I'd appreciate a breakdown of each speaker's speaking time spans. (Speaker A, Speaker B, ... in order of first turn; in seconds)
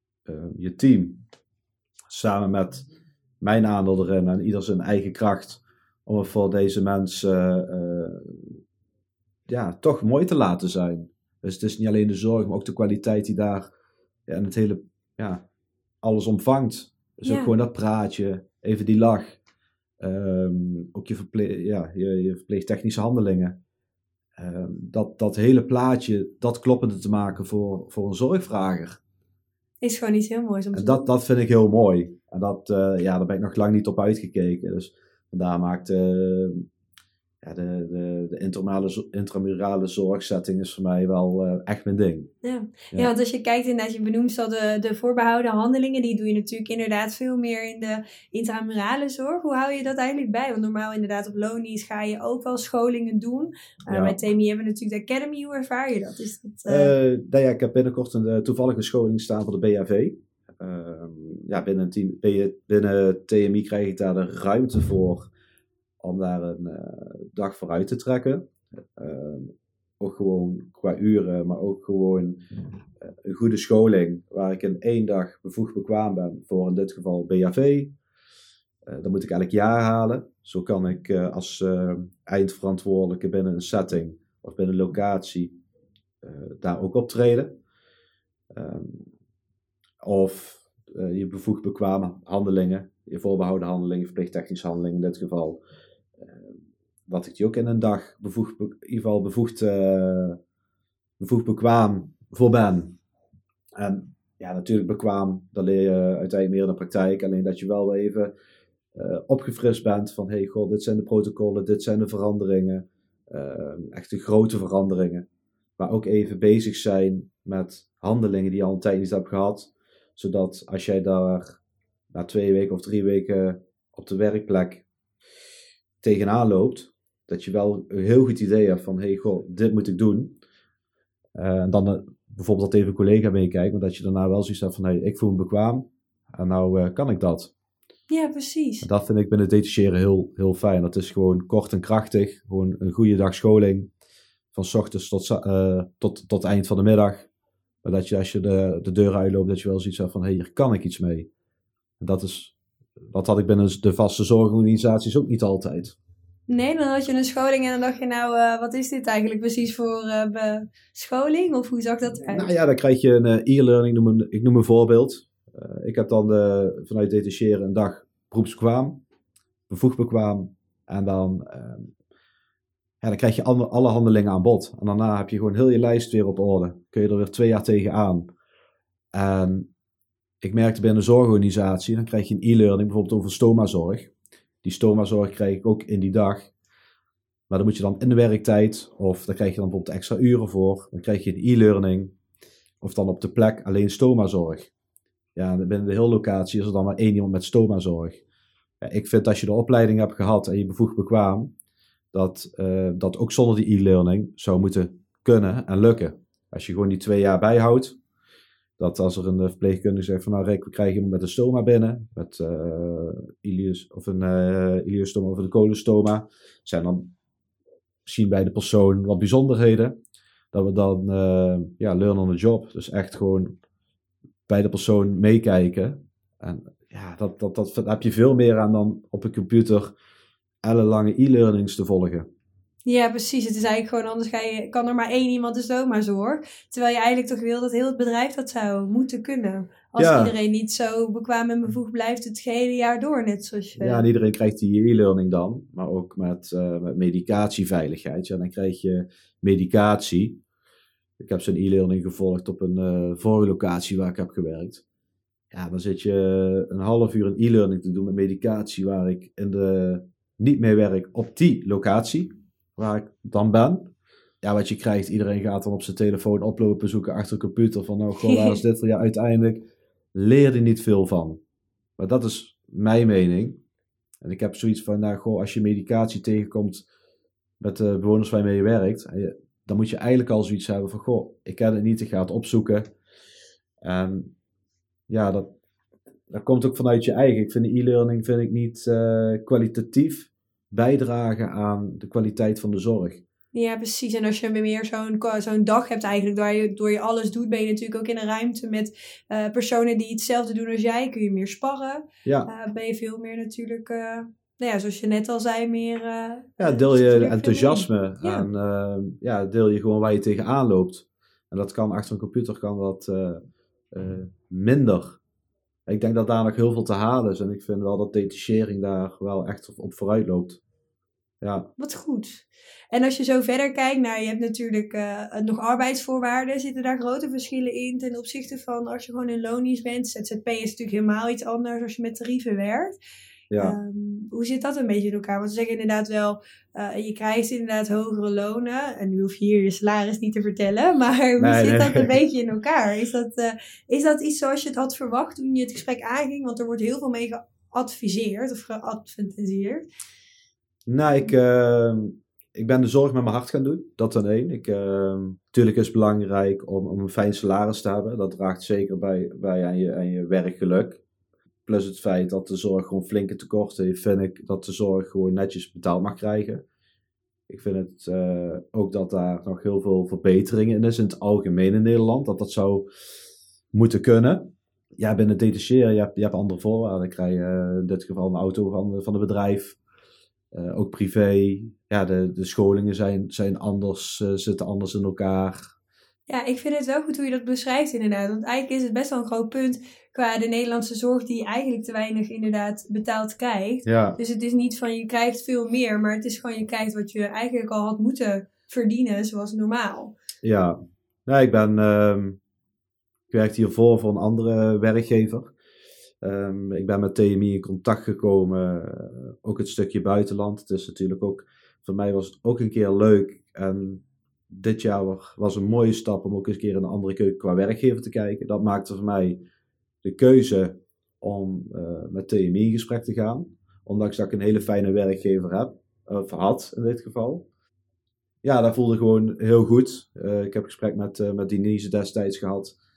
Speaker A: 0.2-1.2, 2.1-2.9, 3.4-8.6, 9.5-13.7, 14.3-15.4, 16.0-19.4, 20.0-23.6, 24.4-29.0, 30.7-36.6, 37.4-42.3, 53.9-54.2, 56.7-65.3, 66.0-72.4, 73.0-78.0, 78.9-85.5, 86.2-87.6, 88.5-89.0, 90.0-95.6, 96.2-96.5, 97.1-100.4, 101.2-103.0, 103.8-108.3, 108.9-115.3, 115.8-121.6, 122.1-124.8, 126.0-130.4, 131.3-137.5, 138.8-143.9, 144.5-147.3, 147.8-151.3, 152.0-155.9, 162.2-169.0, 169.7-171.9, 173.0-178.3, 179.1-179.7, 180.4-184.1, 184.6-186.5, 187.5-192.1, 192.8-194.7, 195.3-198.2, 198.8-201.5, 202.1-208.0, 208.8-217.1, 218.1-219.9, 220.5-223.5, 224.5-229.9, 230.6-232.3, 240.0-240.3, 243.8-250.4, 251.2-254.8, 255.5-263.9, 264.4-271.4, 272.0-273.6, 274.2-276.8, 277.6-282.8, 283.8-284.3, 285.1-285.5, 286.3-293.2, 302.2-302.5, 306.6-315.2, 315.9-320.6, 321.4-321.7, 333.5-333.8, 341.4-342.1, 350.9-361.0, 361.6-366.6, 367.5-372.9, 373.7-379.8, 380.5-385.7, 393.9-394.2, 400.4-400.8, 401.3-402.4, 403.3-405.5, 406.2-419.4, 420.0-427.4, 428.4-432.7
Speaker B: 17.2-17.5, 29.8-31.1, 42.4-56.9, 138.1-138.9, 156.5-162.5, 232.8-244.1, 268.2-268.6, 293.5-308.5, 321.8-333.0, 333.6-349.8, 386.3-400.1